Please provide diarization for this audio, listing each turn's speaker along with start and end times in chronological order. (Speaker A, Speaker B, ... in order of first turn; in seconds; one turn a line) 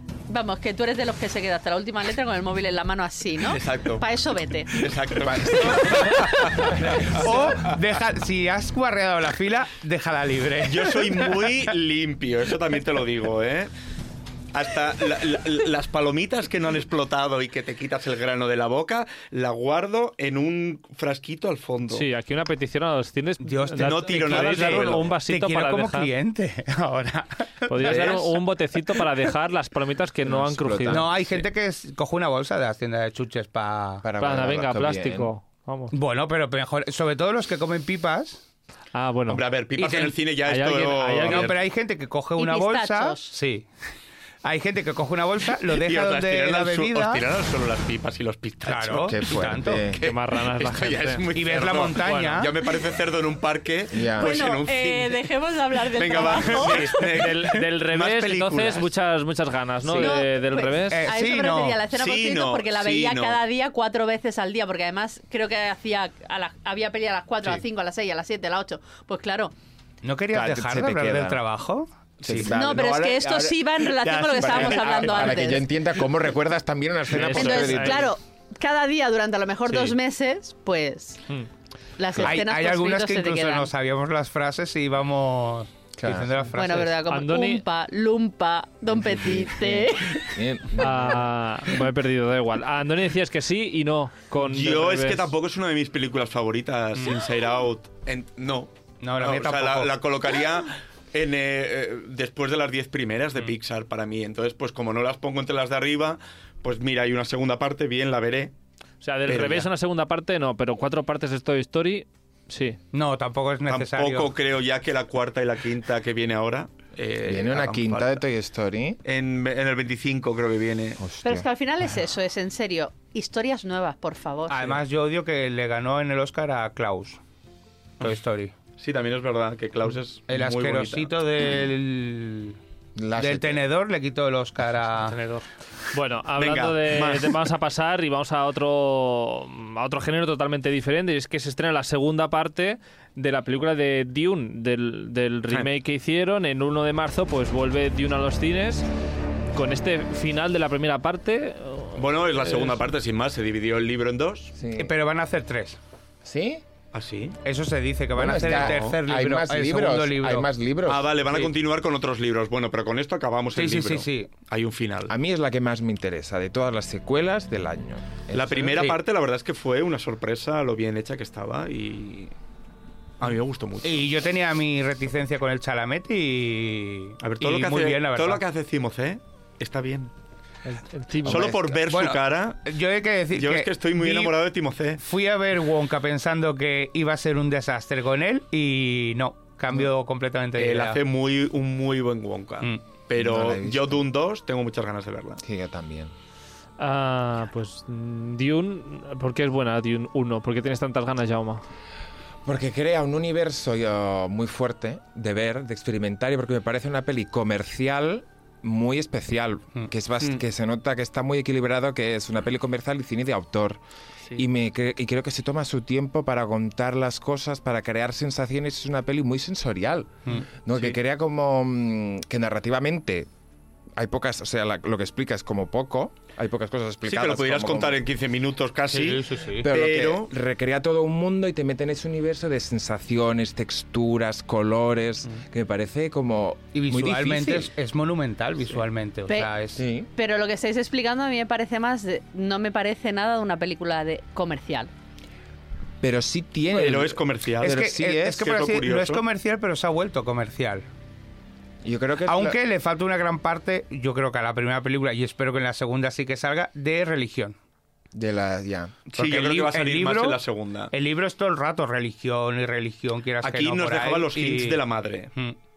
Speaker A: 0.3-6.8
Speaker B: 3.4-4.0
Speaker B: 4.7-7.8
Speaker C: 5.2-7.2
Speaker D: 6.9-11.6
Speaker B: 10.6-13.7
Speaker B: 14.5-22.1
Speaker E: 21.9-26.1
Speaker D: 23.4-28.4
Speaker B: 23.8-25.1
Speaker E: 27.7-31.1
Speaker B: 27.9-28.1
Speaker C: 30.2-31.4
Speaker D: 30.9-34.1
Speaker C: 34.0-35.3
Speaker E: 34.2-36.0
Speaker D: 35.9-38.4
Speaker E: 38.9-39.4
Speaker B: 39.3-41.6
Speaker D: 39.8-40.1
Speaker E: 40.5-41.5
Speaker D: 41.2-43.7
Speaker A: 42.4-43.3
Speaker D: 44.4-47.2
Speaker B: 45.7-55.3
Speaker D: 48.6-49.9
Speaker C: 49.0-50.0
Speaker E: 50.0-51.3
Speaker D: 51.3-52.5
Speaker E: 52.0-52.5
Speaker C: 53.9-54.4
Speaker A: 54.2-57.0
Speaker B: 55.9-58.9
Speaker E: 56.5-61.1
Speaker C: 59.8-60.1
Speaker A: 60.0-69.5
Speaker D: 60.9-61.8
Speaker B: 61.9-63.4
Speaker D: 70.0-72.5
Speaker C: 70.3-71.4
Speaker C: 72.2-73.6
Speaker A: 72.5-75.7
Speaker B: 73.8-75.6
Speaker C: 74.3-78.1
Speaker E: 77.1-78.1
Speaker A: 77.2-81.2
Speaker A: 82.0-83.7
Speaker C: 82.2-82.4
Speaker D: 82.2-87.0
Speaker C: 86.0-86.5
Speaker A: 86.5-90.4
Speaker E: 87.0-87.6
Speaker C: 89.0-91.3
Speaker E: 90.8-95.3
Speaker B: 94.4-108.5
Speaker D: 99.0-99.9
Speaker E: 109.0-112.8
Speaker B: 109.3-109.7
Speaker D: 112.9-114.3
Speaker B: 113.7-118.2
Speaker C: 117.2-119.0
Speaker B: 119.0-121.0
Speaker C: 121.0-121.5
Speaker A: 121.2-124.8
Speaker D: 124.5-127.2
Speaker D: 128.0-128.5
Speaker B: 128.8-131.1
Speaker D: 130.3-132.6
Speaker C: 133.0-133.6
Speaker D: 133.2-135.2
Speaker E: 135.0-148.9
Speaker B: 136.4-137.3
Speaker E: 149.5-152.8
Speaker B: 151.9-154.5
Speaker C: 154.6-154.9
Speaker D: 154.8-155.8
Speaker C: 156.2-156.6
Speaker B: 156.9-157.4
Speaker D: 157.4-160.5
Speaker C: 158.2-161.1
Speaker B: 158.3-159.0
Speaker B: 160.9-165.1
Speaker D: 163.6-164.3
Speaker C: 165.1-168.8
Speaker B: 168.3-172.3
Speaker B: 173.2-174.1
Speaker D: 173.8-178.4
Speaker B: 177.2-180.1
Speaker E: 180.7-181.6
Speaker C: 181.2-181.8
Speaker B: 181.3-182.6
Speaker D: 181.9-184.4
Speaker B: 183.3-185.0
Speaker D: 185.0-191.0
Speaker B: 190.6-195.4
Speaker C: 193.2-194.0
Speaker C: 195.4-196.1
Speaker E: 196.8-201.6
Speaker C: 202.4-213.8
Speaker C: 214.3-223.3
Speaker C: 224.0-228.0
Speaker B: 227.1-230.3
Speaker D: 228.9-229.7
Speaker C: 229.6-237.7
Speaker D: 236.7-239.8
Speaker C: 239.8-240.1
Speaker A: 240.2-244.9
Speaker C: 246.0-248.5
Speaker B: 246.7-249.2
Speaker D: 247.6-250.9
Speaker C: 251.8-252.6
Speaker D: 252.3-257.6
Speaker C: 258.1-258.9
Speaker B: 259.1-260.9
Speaker D: 259.2-260.4
Speaker D: 260.9-264.8
Speaker B: 263.4-265.3